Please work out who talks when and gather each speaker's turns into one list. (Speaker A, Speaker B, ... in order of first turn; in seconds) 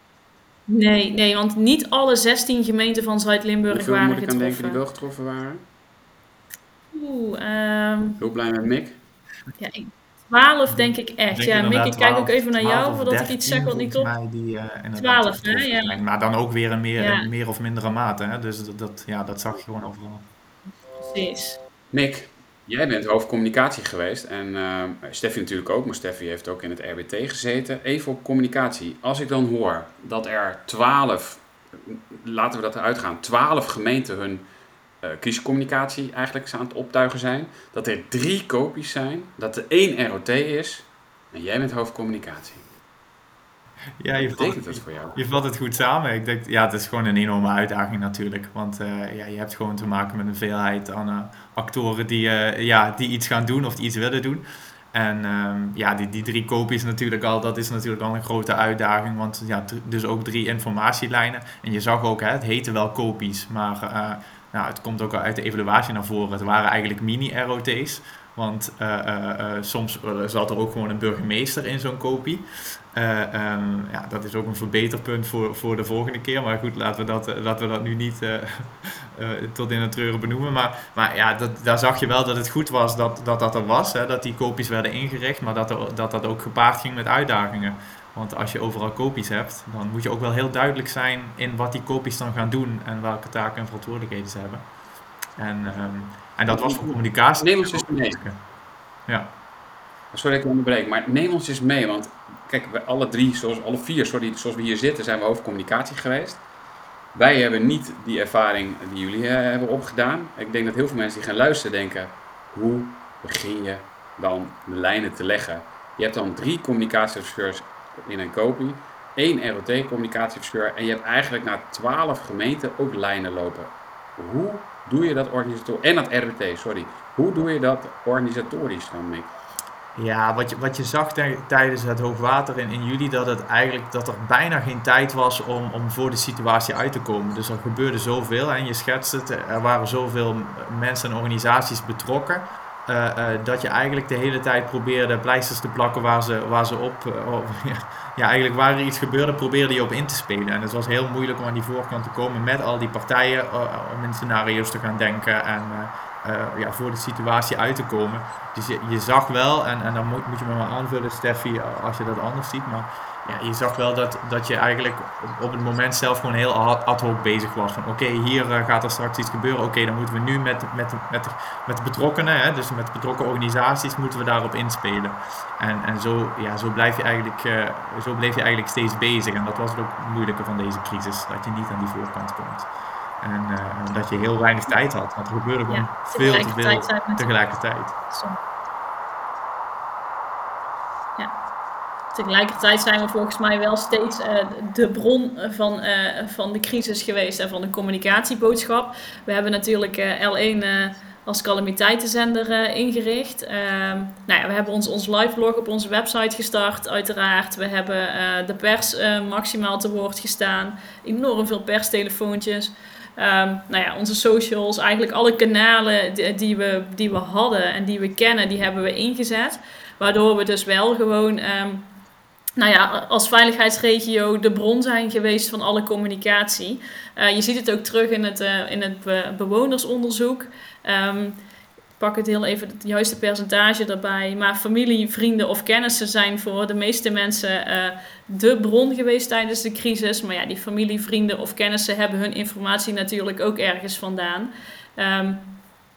Speaker A: 0.7-4.8, 6.9-8.2, 9.6-14.1, 15.0-16.0, 17.0-17.3, 21.0-21.6, 185.7-187.3, 188.1-188.4, 192.1-221.9, 222.6-231.4, 232.0-245.6
Speaker B: 3.7-5.6, 8.2-9.0, 21.9-34.5, 35.0-42.7, 44.2-45.2, 96.5-96.8, 97.4-98.2, 100.1-106.4, 107.1-129.3
Speaker C: 10.7-20.2, 44.0-94.7, 95.4-98.4, 99.1-99.3, 129.9-182.7, 183.2-187.9